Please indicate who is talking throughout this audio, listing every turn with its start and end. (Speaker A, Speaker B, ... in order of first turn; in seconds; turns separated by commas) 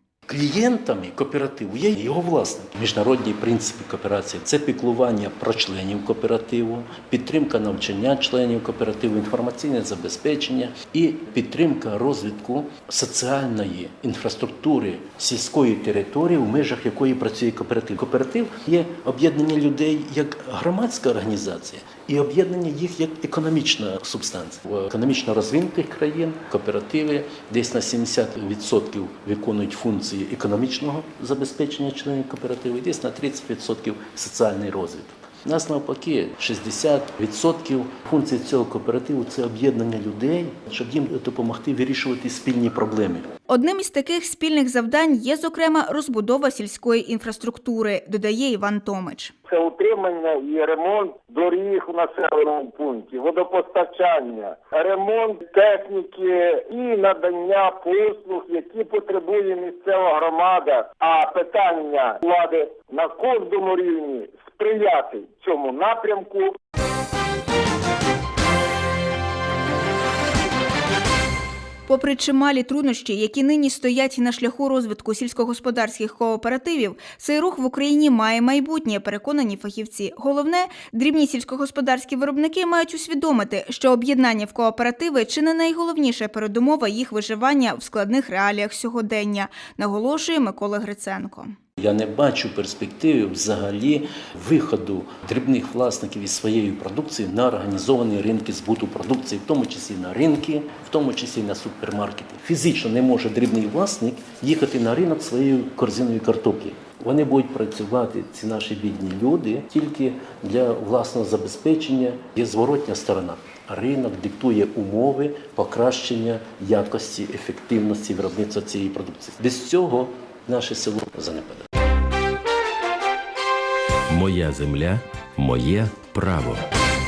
Speaker A: 0.3-43.3, Speaker B: 43.5-49.3, Speaker C: 49.5-66.6, Speaker B: 71.9-91.5, Speaker A: 91.8-121.7, Speaker D: 124.1-126.7